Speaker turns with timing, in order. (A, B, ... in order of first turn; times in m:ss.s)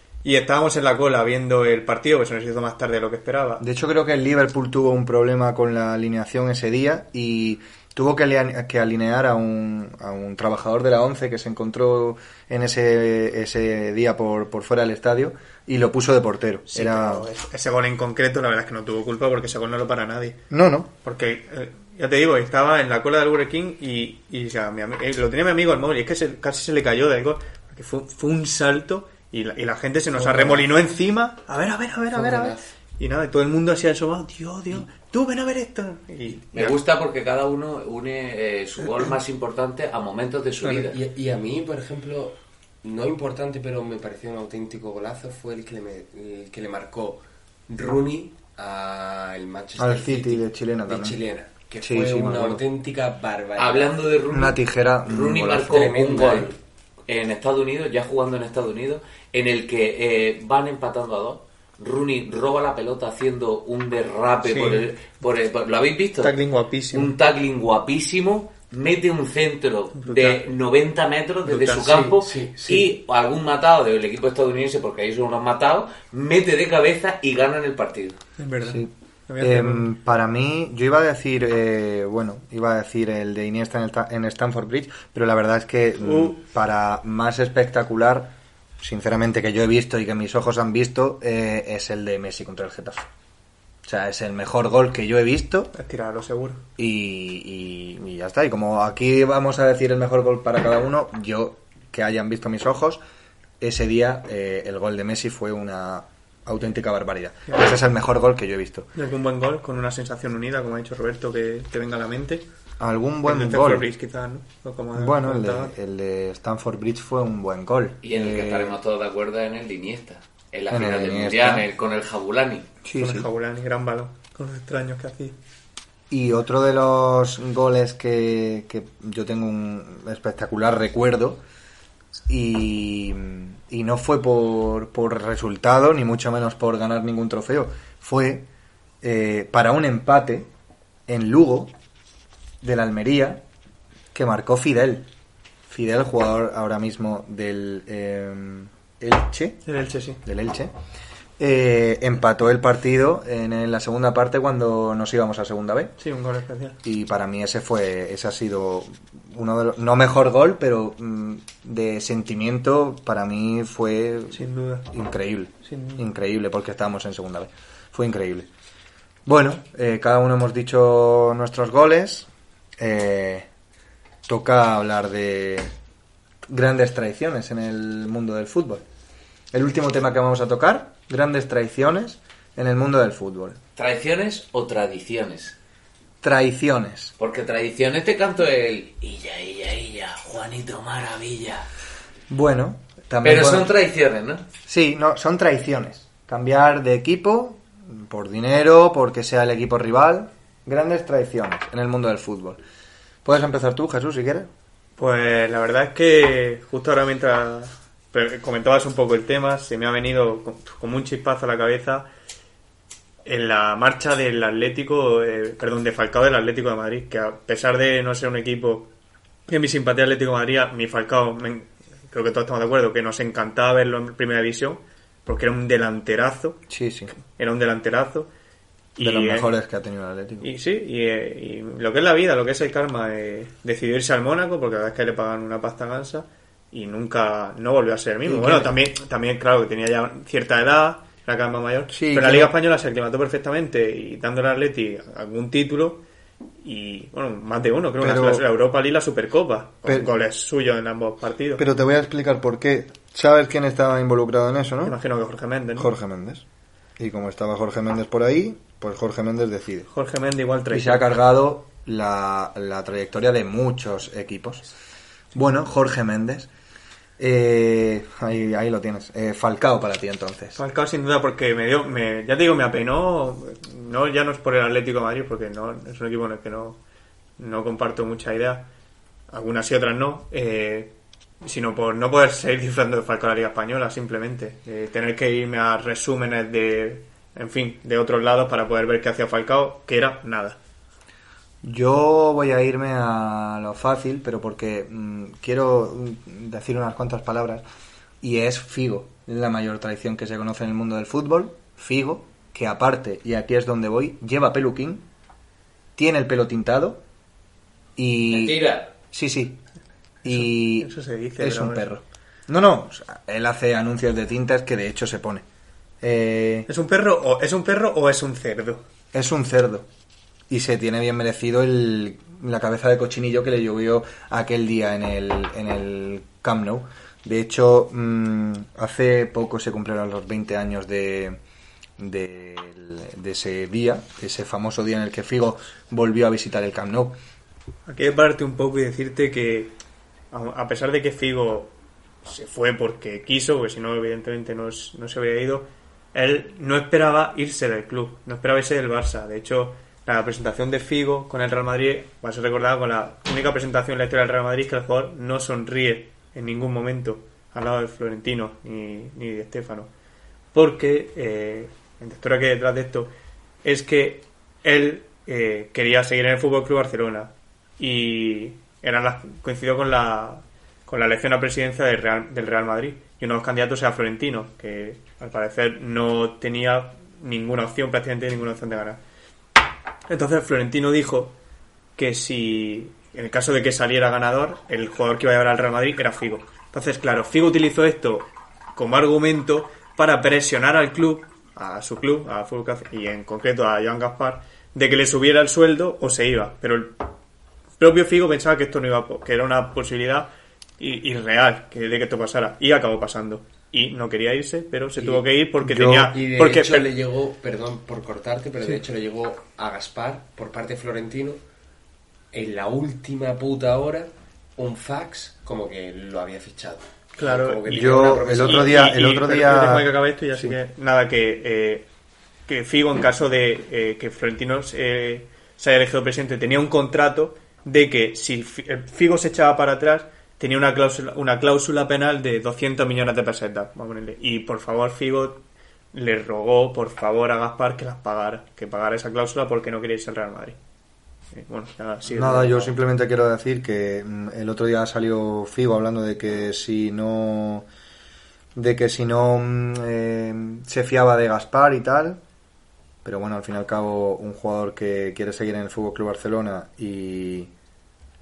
0:00.2-0:03.6 A
0:03.6-0:17.3 B
0:16.7-0:20.4 A
0:20.5-0:20.9 B
0:21.0-0:36.8 A
0:30.2-0:30.6 C
0:32.1-0:32.7 C
0:36.5-0:41.0 D
0:40.9-0:54.0 C
0:49.8-0:51.2 B
0:51.8-0:52.6 B
0:53.6-0:56.6 D
0:54.3-0:56.0 B
0:55.7-0:56.5 C
0:57.1-1:06.3 D
1:04.4-1:04.8 A
1:06.2-1:07.1 A
1:06.9-1:18.2 D
1:10.0-1:10.5 A
1:11.4-1:12.1 A
1:12.1-1:12.9 C
1:18.4-1:19.9 A
1:18.6-1:33.1 B
1:26.0-1:26.3 A
1:33.8-1:35.7 B
1:35.7-1:36.6 A
1:36.8-1:43.0 B
1:43.6-1:48.9 B
1:49.0-1:52.4 A
1:52.8-1:53.9 B
1:53.2-1:55.7 A
1:54.9-1:58.8 B
1:58.0-2:02.7 D
2:00.7-2:01.6 B
2:02.8-2:03.3 B
2:02.9-2:05.4 A
2:06.1-2:11.4 B
2:12.3-2:18.5 B
2:19.0-2:20.5 B
2:21.1-2:21.7 B
2:22.6-2:23.4 B
2:24.1-2:25.0 B
2:25.7-2:29.6 B
2:29.6-2:30.2 A
2:30.2-2:30.7 B
2:31.4-2:35.9 B
2:36.0-2:36.8 A
2:36.8-2:48.5 B
2:44.3-2:44.9 A
2:45.7-2:46.0 A
2:49.2-2:52.3 B
2:52.8-2:53.5 B
2:54.3-2:55.7 B
2:56.5-2:58.8 B
2:59.5-3:03.6 B
3:03.8-3:05.6 D
3:06.2-3:07.1 B
3:07.2-3:11.7 D
3:12.3-3:13.7 B
3:13.2-3:14.4 D
3:14.6-3:22.6 B
3:23.2-3:24.5 B
3:25.0-3:32.1 A
3:33.2-3:38.9 A
3:39.5-3:46.6 A
3:46.7-3:47.1 B
3:47.2-3:48.3 A
3:49.0-3:49.5 A
3:49.0-3:50.5 B
3:50.4-4:06.0 A
3:58.2-3:58.8 B
4:01.9-4:02.5 B
4:06.6-4:11.6 A
4:08.0-4:08.4 B
4:09.8-4:10.1 B
4:11.6-4:15.0 B
4:14.8-4:15.9 A
4:15.8-4:16.4 B
4:17.0-4:19.9 B
4:19.9-4:21.1 A
4:20.7-4:24.6 B
4:25.3-4:26.5 B
4:27.2-4:30.6 B
4:30.6-4:36.8 A
4:37.4-4:38.7 A
4:39.3-4:50.6 A
4:51.6-4:57.6 B
4:58.2-5:05.0 B
5:06.0-5:07.0 B
5:08.0-5:09.6 B
5:08.3-5:08.9 D
5:10.2-5:15.4 B
5:10.2-5:11.9 A
5:16.0-5:16.7 B
5:16.7-5:18.8 A
5:19.1-5:19.8 B
5:20.5-5:31.4 B
5:32.0-5:37.2 B
5:37.9-5:39.8 A
5:40.3-5:41.7 A
5:42.2-5:59.9 A
6:00.5-6:03.1 A
6:03.6-6:19.0 A
6:20.1-6:21.4 A
6:22.0-6:37.0 A
6:37.8-6:46.9 A
6:45.0-6:45.2 C
6:45.6-6:46.1 B
6:46.1-6:51.4 C
6:52.3-6:58.8 C
6:57.2-7:01.8 A
6:57.7-7:00.6 B
7:02.5-7:15.4 A
7:15.9-7:20.6 A
7:21.3-7:22.7 A
7:22.0-7:27.7 B
7:28.5-7:32.2 B
7:33.0-7:37.5 B